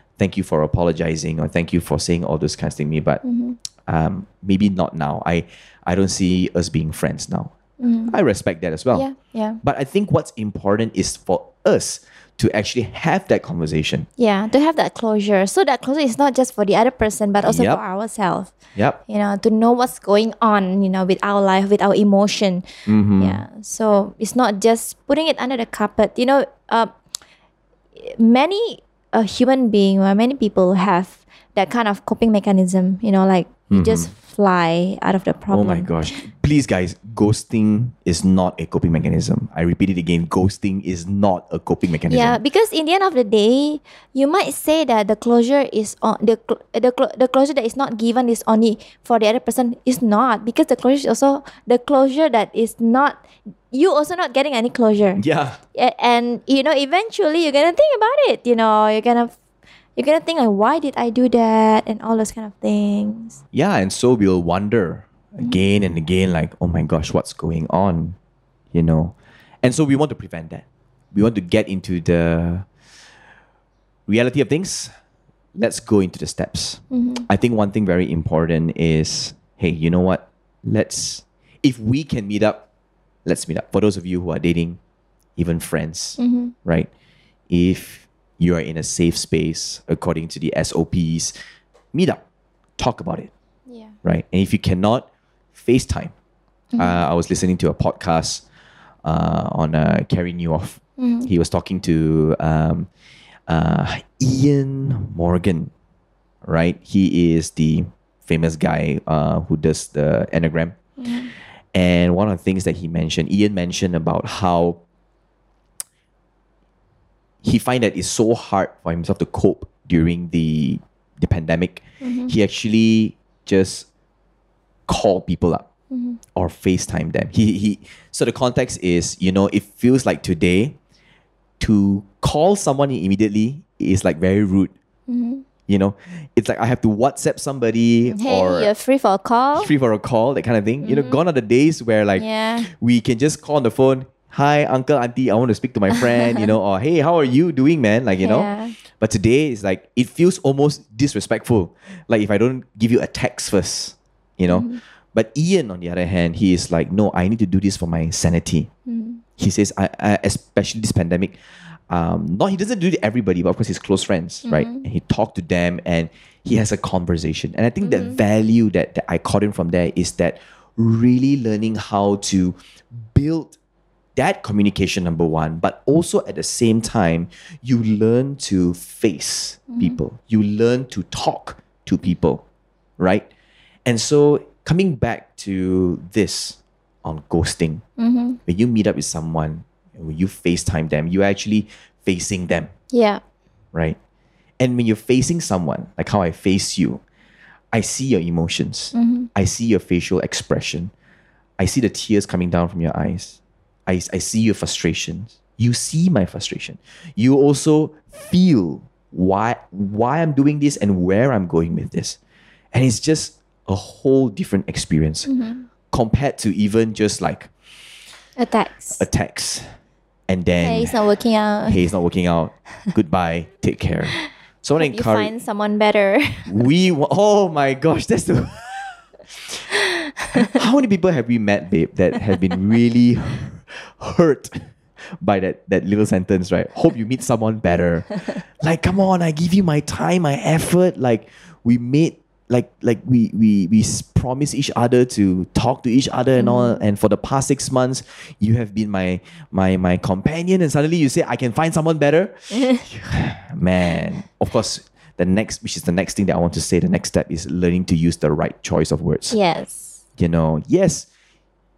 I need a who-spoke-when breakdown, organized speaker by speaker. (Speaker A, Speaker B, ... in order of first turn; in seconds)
Speaker A: 0.2-3.2, 3.9-7.5, 8.1-9.1, 9.6-14.1, 17.4-17.8, 22.9-23.4, 33.7-34.1, 35.5-42.4, 55.2-55.6, 63.5-68.2, 68.7-72.7, 74.1-74.9, 75.6-82.7, 83.2-84.8, 85.4-86.9, 87.5-91.3, 91.9-92.2, 92.8-93.3, 94.0-96.1, 96.8-98.4, 99.0-102.9, 103.5-105.7, 106.4-110.8, 111.7-114.8, 117.4-123.9, 124.9-125.7, 126.3-130.8, 131.6-134.7, 135.7-138.7, 139.5-158.7, 159.4-161.3, 161.9-172.6, 173.1-173.5, 174.2-182.4, 183.0-183.3, 183.8-187.8, 188.4-192.7, 194.6-197.0, 197.7-200.9, 201.6-212.2, 212.7-215.3, 215.9-217.5, 218.9-219.6, 220.3-220.9, 221.7-225.3, 226.4-229.6, 230.4-259.4, 260.2-261.1
Speaker B: 3.2-3.6, 7.8-8.1, 8.9-9.6, 14.2-18.5, 19.1-26.9, 27.9-35.9, 42.1-55.2, 55.7-59.3, 60.0-63.4, 76.9-77.3, 86.2-86.5, 93.7-93.9, 96.7-97.0, 101.0-101.3, 111.0-111.3, 122.0-122.3, 125.9-126.2, 135.1-135.4, 138.1-139.7, 140.8-141.2, 142.2-142.7, 146.0-146.5, 148.2-148.8, 154.5-154.8, 158.9-159.2, 164.5-164.8, 167.8-168.2, 179.7-180.0, 188.0-188.4, 192.9-193.2, 198.9-199.3, 215.3-215.7, 218.4-219.0, 220.6-221.8, 224.8-226.5, 230.1-230.4, 246.4-246.8, 259.3-260.0